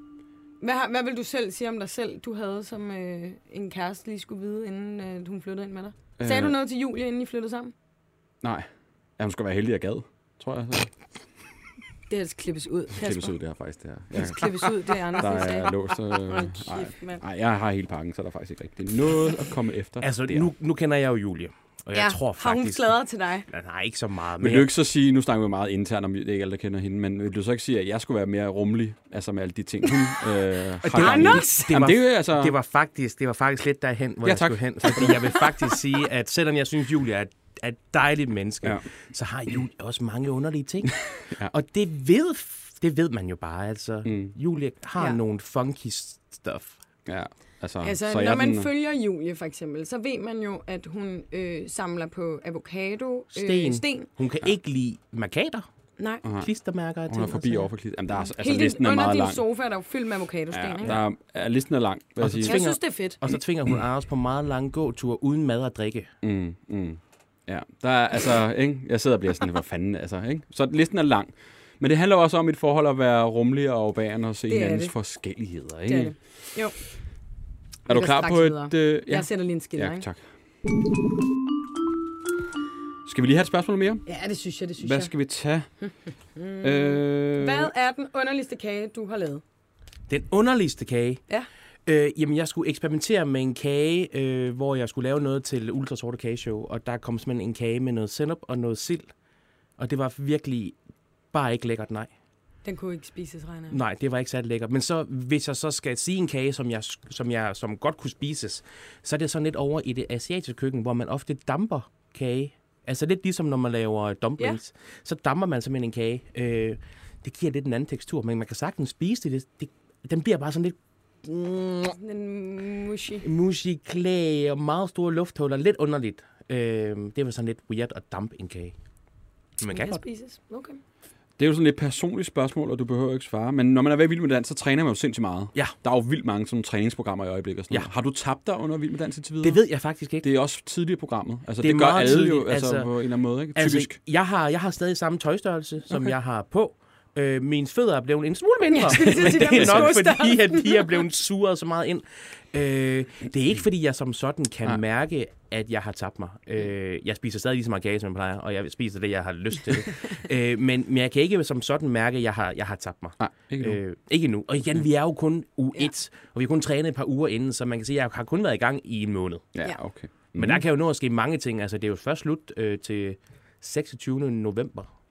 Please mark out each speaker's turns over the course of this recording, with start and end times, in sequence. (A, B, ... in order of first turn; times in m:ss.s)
0:00.6-0:07.7 A
0:06.2-0:06.6 B
0:08.4-0:08.7 B
0:09.2-0:10.9 B
0:12.1-0:13.3 A
0:12.9-0:20.5 B
0:14.1-0:17.2 A
0:20.0-0:22.9 C
0:21.9-0:23.5 A
0:23.5-0:24.7 C
0:24.4-0:32.5 B
0:30.8-0:46.8 C
0:30.9-0:31.8 A
0:34.2-0:35.5 B
0:41.2-0:41.5 B
0:44.0-0:44.3 B
0:47.0-0:48.7 B
0:47.8-0:54.1 A
0:53.3-0:55.6 C
0:56.0-0:56.2 A
0:56.2-0:56.5 B
0:56.4-0:57.7 C
0:57.1-0:59.4 B
0:58.2-1:01.0 A
1:00.5-1:02.8 B
1:02.2-1:06.1 C
1:02.4-1:03.2 A
1:06.2-1:16.1 B
1:14.5-1:14.9 A
1:15.9-1:16.8 A
1:17.9-1:20.2 B
1:17.9-1:20.0 A
1:23.0-1:24.0 B
1:24.0-1:25.1 A
1:24.8-1:25.7 B
1:25.8-1:29.4 A
1:26.6-1:27.7 B
1:30.1-1:31.2 C
1:31.9-1:39.1 C
1:39.8-1:40.8 C
1:41.3-1:42.1 C
1:42.6-1:43.8 A
1:43.7-2:02.0 C
2:01.9-2:03.2 A
2:03.2-2:08.7 C
2:09.6-2:10.0 C
2:09.7-2:10.8 A
2:11.4-2:19.6 B
2:19.4-2:20.3 C
2:20.2-2:24.0 B
2:21.6-2:22.9 C
2:23.5-2:49.5 C
2:28.7-2:31.0 A
2:29.0-2:29.9 B
2:43.2-2:43.8 B
2:49.5-2:50.6 B
2:50.4-2:54.9 C